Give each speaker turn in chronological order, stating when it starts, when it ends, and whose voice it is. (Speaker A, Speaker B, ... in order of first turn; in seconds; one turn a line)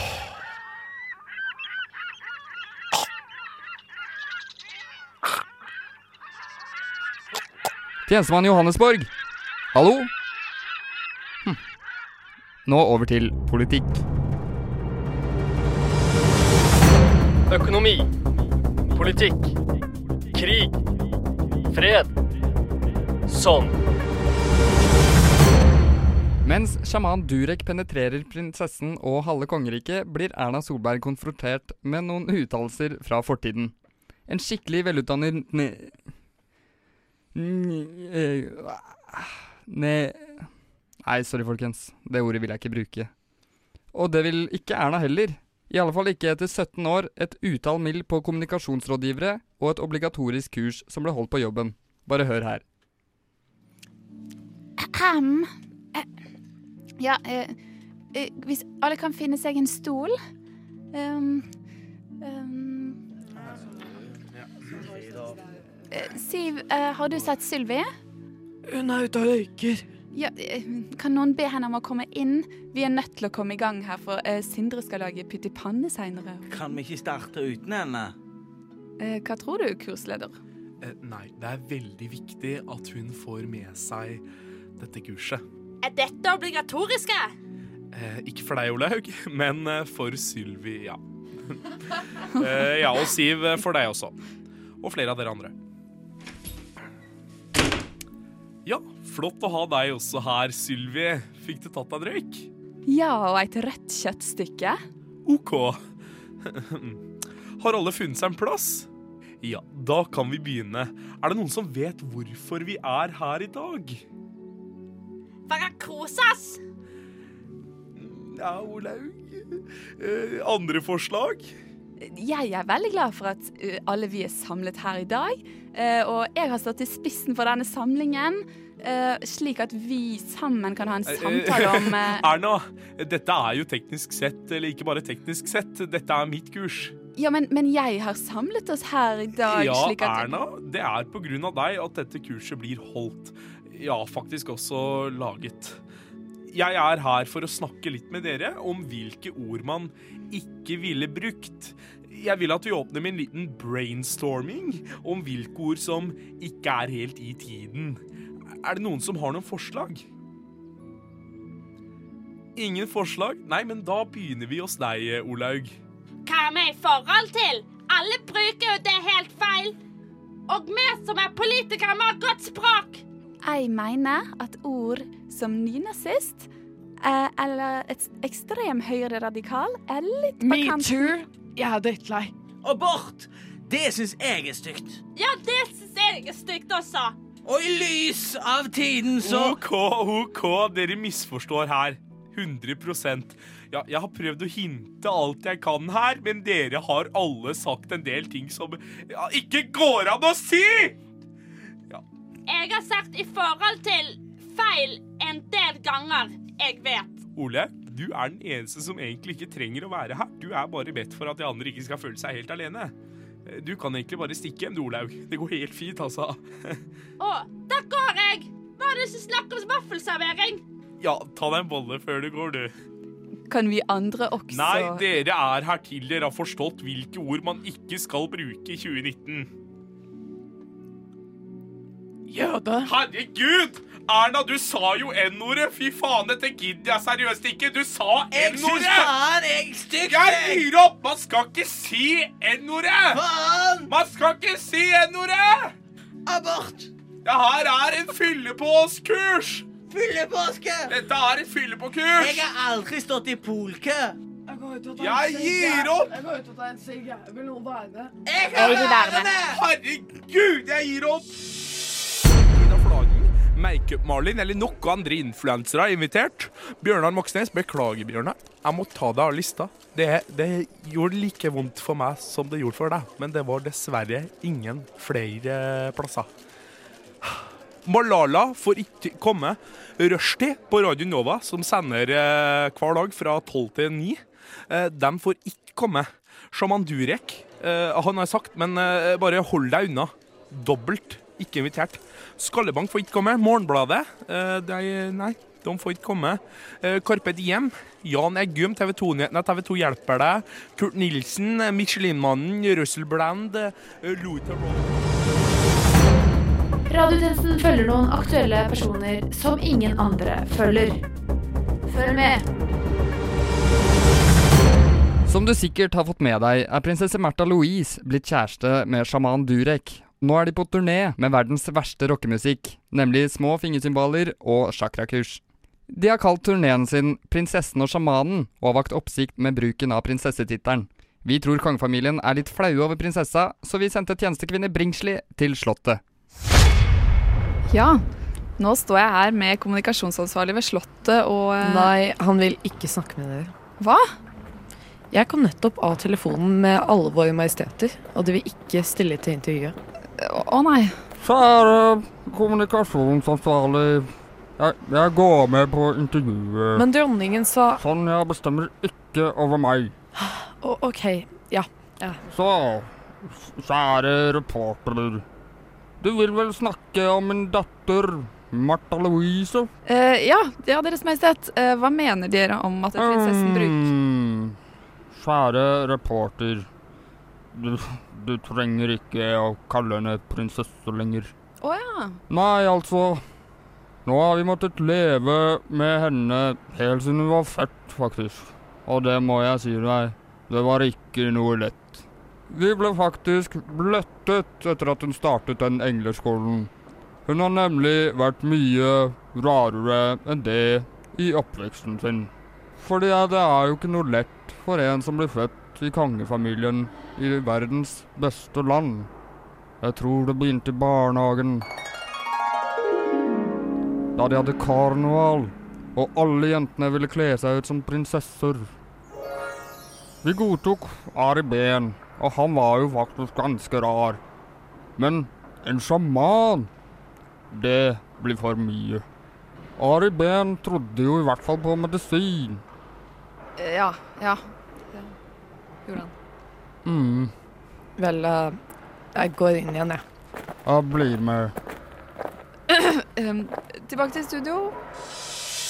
Speaker A: 8.1-9.1
Speaker A: 9.7-10.1
Speaker A: 12.7-14.0
Speaker B: 17.5-18.1
Speaker B: 18.9-19.5
Speaker B: 20.3-20.8
Speaker B: 21.7-22.1
Speaker B: 23.3-23.8
Speaker A: 26.4-33.7
Speaker A: 34.3-36.0
Speaker A: 37.4-40.5
Speaker A: 41.0-43.1
Speaker A: 43.9-52.6
Speaker C: 54.8-56.1
Speaker C: 57.0-57.6
Speaker C: 58.1-60.2
Speaker C: 60.9-61.5
Speaker C: 62.2-63.0
Speaker C: 65.9-67.9
Speaker D: 68.7-69.8
Speaker C: 70.1-76.5
Speaker E: 76.5-78.1
Speaker C: 79.0-80.4
Speaker F: 80.8-84.2
Speaker F: 84.8-85.4
Speaker G: 85.8-87.3
Speaker F: 87.9-91.6
Speaker F: 92.3-94.2
Speaker F: 94.8-95.5
Speaker F: 98.7-102.5
Speaker C: 102.9-104.8
Speaker F: 105.3-105.8
Speaker F: 106.4-107.0
Speaker F: 107.6-108.9
Speaker F: 109.4-114.0
Speaker G: 115.5-116.6
Speaker F: 118.0-121.5
Speaker C: 122.0-132.2
Speaker F: 131.1-137.0
Speaker C: 137.2-140.3
Speaker F: 139.4-145.8
Speaker F: 146.5-158.0
Speaker F: 158.6-160.1
Speaker F: 162.6-165.8
Speaker G: 166.3-169.8
Speaker G: 170.5-173.0
Speaker C: 173.4-176.5
Speaker C: 177.0-181.2
Speaker D: 180.4-182.3
Speaker E: 182.7-185.0
Speaker G: 185.1-187.2
Speaker E: 187.5-189.5
Speaker F: 189.2-201.0
Speaker G: 202.5-207.3
Speaker F: 207.3-212.9
Speaker F: 213.5-216.8
Speaker G: 217.2-220.6
Speaker F: 221.0-222.7
Speaker C: 223.5-225.0
Speaker F: 224.5-229.5
Speaker D: 232.3-232.9
Speaker F: 232.8-239.2
Speaker E: 238.3-240.6
Speaker F: 240.0-243.3
Speaker E: 243.1-243.9
Speaker F: 243.8-245.8
Speaker E: 246.3-246.9
Speaker F: 247.2-249.7
Speaker E: 249.9-250.9
Speaker F: 250.9-252.5
Speaker E: 252.2-254.2
Speaker D: 254.5-258.2
Speaker F: 255.0-256.2
Speaker E: 258.3-259.5
Speaker F: 258.4-261.4
Speaker G: 258.6-259.3
Speaker F: 262.4-276.3
Speaker F: 277.2-305.0
Speaker H: 306.9-311.0
Speaker H: 311.9-312.4
Speaker A: 315.3-336.0
Speaker C: 337.7-338.0
Speaker C: 338.6-341.9
Speaker D: 341.6-343.5
Speaker C: 343.8-344.1
Speaker D: 345.1-349.8
Speaker C: 350.2-350.9
Speaker A: 351.2-356.8
Speaker D: 356.8-357.8
Speaker A: 357.8-359.9
Speaker D: 360.1-362.2
Speaker A: 362.3-365.2
Speaker A: 366.0-369.7
Speaker C: 369.9-373.9
Speaker A: 373.0-374.6
Speaker A: 375.1-376.7
Speaker A: 377.5-381.3
Speaker C: 381.6-382.2
Speaker A: 382.3-383.2
Speaker A: 384.1-396.7
Speaker A: 397.3-409.1
Speaker A: 409.8-411.7
Speaker A: 414.2-418.7
Speaker A: 420.2-424.2
Speaker A: 425.0-426.7
Speaker A: 427.5-429.1
Speaker A: 429.8-432.6
Speaker C: 433.6-435.1
Speaker A: 436.9-437.3
Speaker D: 438.0-438.6
Speaker D: 439.1-440.0
Speaker A: 440.7-441.5
Speaker C: 442.7-444.8